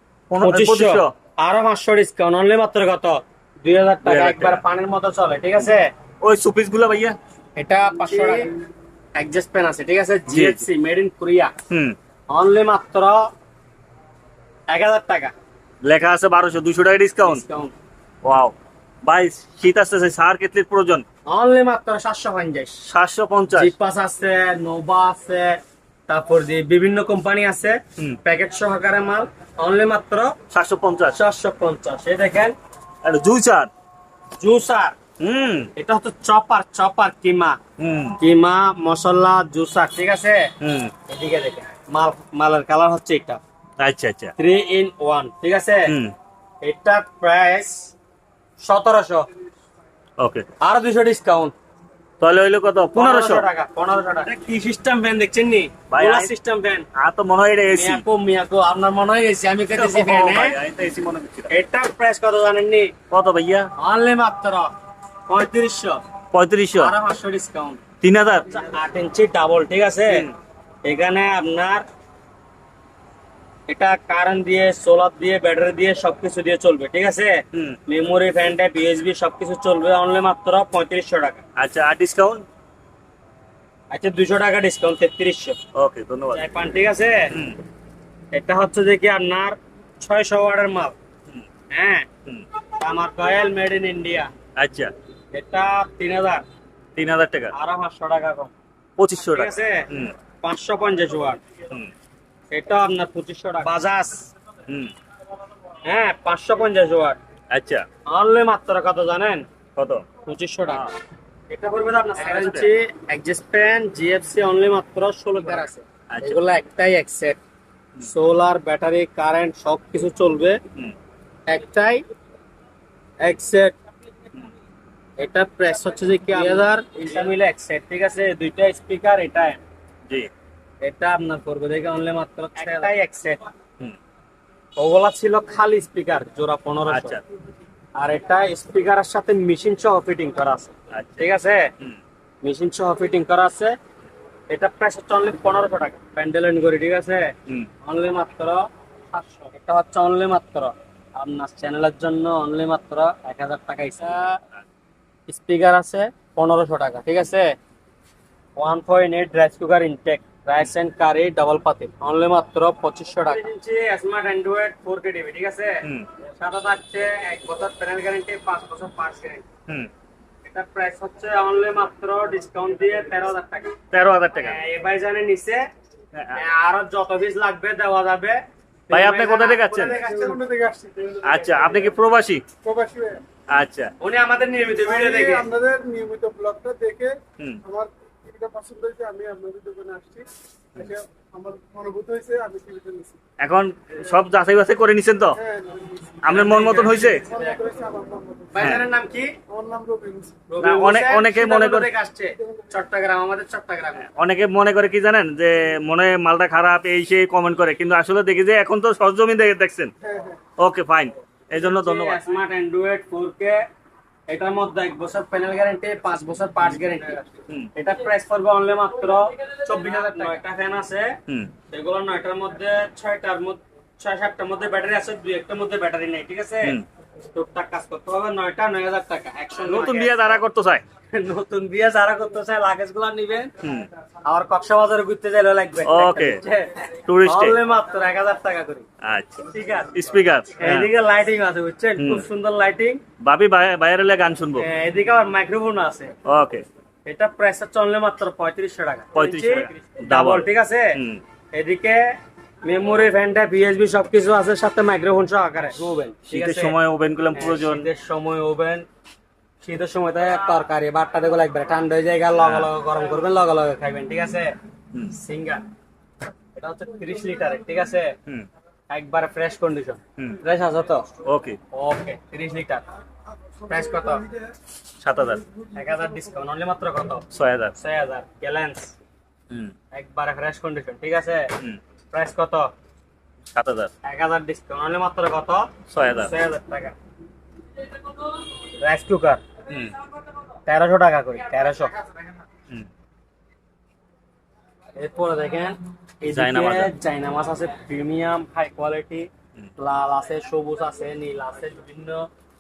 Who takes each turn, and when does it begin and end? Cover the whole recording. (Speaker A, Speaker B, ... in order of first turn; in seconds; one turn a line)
Speaker A: 0.3-1.1
Speaker B: 0.4-5.9
Speaker A: 4.0-4.6
Speaker A: 6.2-7.2
Speaker B: 7.6-8.5
Speaker B: 9.2-11.5
Speaker A: 10.3-10.6
Speaker A: 11.7-12.0
Speaker B: 12.3-13.3
Speaker B: 14.7-15.3
Speaker A: 15.8-17.4
Speaker B: 17.2-17.7
Speaker A: 18.2-21.1
Speaker B: 21.3-22.8
Speaker A: 22.9-23.7
Speaker B: 23.6-30.4
Speaker A: 30.5-31.2
Speaker B: 31.1-32.5
Speaker A: 33.0-33.7
Speaker B: 34.4-35.0
Speaker A: 35.2-35.7
Speaker B: 35.8-37.6
Speaker A: 37.8-38.2
Speaker B: 38.2-40.5
Speaker A: 40.6-40.9
Speaker B: 41.1-43.4
Speaker A: 43.8-44.4
Speaker B: 44.4-46.0
Speaker A: 45.9-46.1
Speaker B: 46.6-47.9
Speaker B: 48.6-49.3
Speaker A: 50.2-50.5
Speaker B: 50.6-51.5
Speaker A: 52.2-53.5
Speaker B: 53.0-56.9
Speaker A: 55.9-56.3
Speaker A: 57.0-58.0
Speaker B: 57.7-60.6
Speaker A: 59.7-61.5
Speaker B: 61.5-62.9
Speaker A: 63.1-63.7
Speaker B: 63.8-64.7
Speaker B: 65.3-66.0
Speaker A: 66.3-66.9
Speaker B: 66.8-67.8
Speaker A: 68.0-68.5
Speaker B: 68.5-70.3
Speaker B: 70.9-71.8
Speaker B: 73.7-81.4
Speaker A: 77.5-77.8
Speaker A: 81.6-82.5
Speaker B: 83.9-85.6
Speaker A: 85.7-86.5
Speaker B: 86.3-87.3
Speaker A: 87.3-87.6
Speaker B: 88.3-91.0
Speaker B: 91.7-92.1
Speaker B: 92.8-94.3
Speaker A: 94.6-94.9
Speaker B: 95.3-96.5
Speaker A: 97.0-97.5
Speaker B: 97.5-98.5
Speaker A: 99.0-100.1
Speaker B: 99.3-99.9
Speaker B: 100.4-101.4
Speaker B: 102.5-104.3
Speaker A: 104.7-104.9
Speaker B: 105.9-107.2
Speaker A: 107.5-107.9
Speaker B: 108.1-109.5
Speaker A: 109.8-110.1
Speaker B: 110.3-110.9
Speaker A: 110.7-110.9
Speaker B: 111.5-117.4
Speaker A: 112.2-112.7
Speaker A: 116.1-116.4
Speaker B: 118.0-120.6
Speaker B: 121.5-122.0
Speaker B: 123.2-123.8
Speaker B: 125.2-129.6
Speaker B: 130.8-133.4
Speaker B: 134.8-137.2
Speaker A: 136.9-137.2
Speaker B: 138.0-141.7
Speaker A: 140.9-141.3
Speaker B: 142.4-143.8
Speaker B: 144.5-147.3
Speaker B: 147.8-154.4
Speaker B: 155.3-157.5
Speaker B: 158.6-165.8
Speaker B: 166.4-169.4
Speaker B: 170.4-173.8
Speaker A: 173.9-174.6
Speaker B: 174.4-175.6
Speaker A: 176.1-176.4
Speaker B: 176.4-180.4
Speaker A: 178.9-180.0
Speaker C: 180.0-181.9
Speaker A: 181.2-182.4
Speaker C: 182.6-183.2
Speaker A: 183.5-183.9
Speaker B: 184.0-185.5
Speaker C: 184.8-193.2
Speaker A: 193.4-195.4
Speaker C: 195.4-196.2
Speaker A: 196.2-197.2
Speaker B: 196.3-197.7
Speaker C: 197.0-198.8
Speaker B: 198.5-199.4
Speaker A: 198.6-198.9
Speaker C: 199.5-200.4
Speaker B: 200.5-204.1
Speaker A: 200.6-201.9
Speaker A: 204.1-209.9
Speaker A: 210.6-212.2
Speaker B: 211.6-213.6
Speaker B: 214.3-221.2
Speaker B: 221.7-226.8
Speaker B: 227.3-230.4
Speaker A: 229.6-230.8
Speaker B: 231.1-233.5
Speaker A: 233.6-233.9
Speaker B: 234.2-238.9
Speaker A: 235.8-236.4
Speaker A: 237.1-237.6
Speaker A: 239.0-240.9
Speaker B: 239.5-240.0
Speaker B: 240.6-243.0
Speaker A: 242.0-242.3
Speaker A: 243.2-244.7
Speaker B: 244.6-246.1
Speaker A: 246.2-246.7
Speaker B: 247.1-251.0
Speaker A: 249.1-251.2
Speaker B: 251.5-256.8
Speaker A: 256.3-257.9
Speaker B: 257.4-258.9
Speaker B: 259.6-264.5
Speaker A: 262.4-262.7
Speaker B: 265.1-265.6
Speaker B: 266.6-268.2
Speaker B: 268.9-271.1
Speaker A: 271.2-271.6
Speaker B: 271.7-272.9
Speaker B: 273.7-274.3
Speaker A: 275.0-275.4
Speaker B: 275.8-277.2
Speaker A: 277.3-277.8
Speaker B: 277.8-278.9
Speaker B: 279.9-281.5
Speaker B: 282.1-282.7
Speaker A: 283.5-283.9
Speaker B: 284.0-287.0
Speaker A: 285.9-286.3
Speaker B: 288.8-289.4
Speaker A: 289.7-289.9
Speaker B: 290.7-291.9
Speaker B: 295.0-302.3
Speaker A: 296.3-296.9